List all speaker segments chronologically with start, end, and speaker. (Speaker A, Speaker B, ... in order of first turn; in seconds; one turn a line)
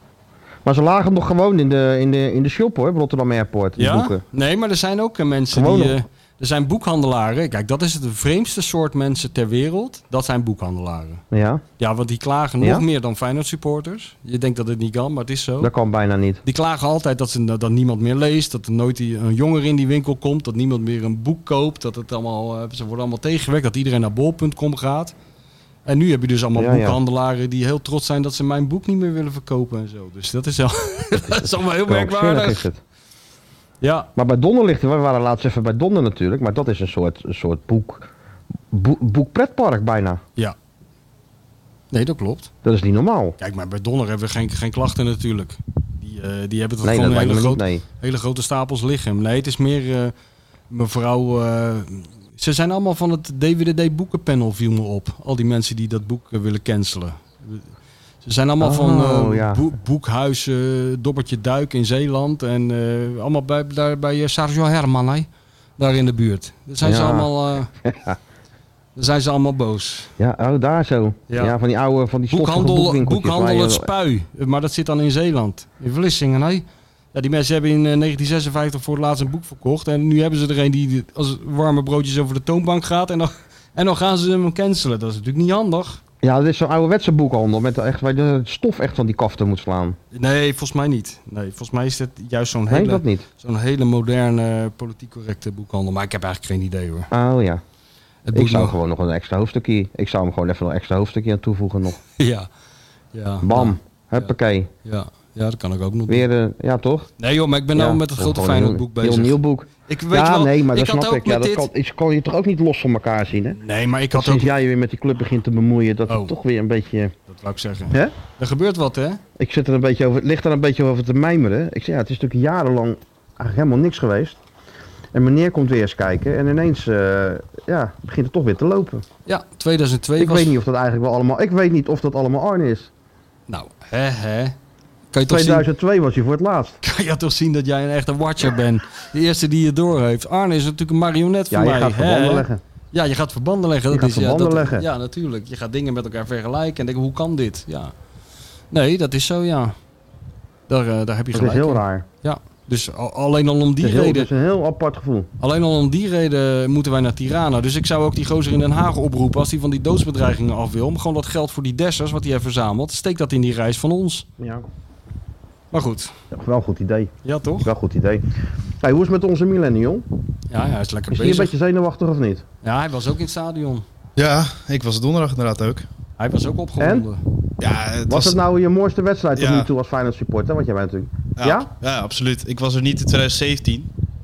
Speaker A: 0.7-4.2
Speaker B: 3.8-11.2
Speaker A: 5.5-6.0
Speaker A: 11.3-11.6
Speaker B: 11.8-15.7
Speaker A: 15.6-16.4
Speaker B: 16.4-25.1
Speaker B: 25.9-32.7
Speaker A: 26.6-27.0
Speaker A: 31.4-32.8
Speaker B: 33.8-34.1
Speaker A: 34.2-38.1
Speaker A: 38.7-40.2
Speaker B: 41.9-42.5
Speaker A: 42.6-43.4
Speaker B: 43.4-50.1
Speaker A: 46.8-47.8
Speaker B: 50.7-57.7
Speaker B: 58.2-67.7
Speaker A: 58.6-59.6
Speaker A: 66.8-67.3
Speaker A: 67.8-68.2
Speaker B: 69.0-70.1
Speaker A: 70.2-73.9
Speaker B: 71.3-71.6
Speaker B: 72.3-86.0
Speaker A: 86.2-90.0
Speaker B: 90.1-97.1
Speaker A: 92.7-93.2
Speaker A: 97.1-97.6
Speaker B: 98.2-98.8
Speaker A: 98.3-102.0
Speaker B: 102.2-102.5
Speaker B: 103.1-104.3
Speaker A: 103.4-104.7
Speaker B: 104.8-106.3
Speaker A: 106.1-107.1
Speaker B: 107.2-111.7
Speaker A: 107.7-113.6
Speaker B: 113.6-114.5
Speaker A: 114.1-117.1
Speaker B: 116.1-116.3
Speaker B: 117.3-119.2
Speaker A: 119.4-124.4
Speaker A: 125.1-129.0
Speaker B: 129.3-130.6
Speaker A: 130.2-132.9
Speaker B: 133.5-134.6
Speaker B: 135.1-135.7
Speaker A: 135.3-136.8
Speaker B: 136.8-147.9
Speaker A: 141.5-142.6
Speaker A: 143.9-144.9
Speaker B: 148.7-149.8
Speaker B: 150.7-154.3
Speaker A: 151.3-152.1
Speaker A: 153.8-155.3
Speaker B: 155.4-164.3
Speaker A: 164.4-164.7
Speaker B: 165.7-166.1
Speaker A: 166.3-168.2
Speaker B: 167.2-167.7
Speaker A: 168.8-170.1
Speaker B: 170.5-171.5
Speaker A: 171.1-172.4
Speaker B: 172.6-173.8
Speaker C: 174.2-175.9
Speaker B: 176.2-177.2
Speaker A: 176.8-177.1
Speaker C: 177.6-178.4
Speaker A: 178.1-181.7
Speaker C: 179.4-179.7
Speaker C: 181.4-183.9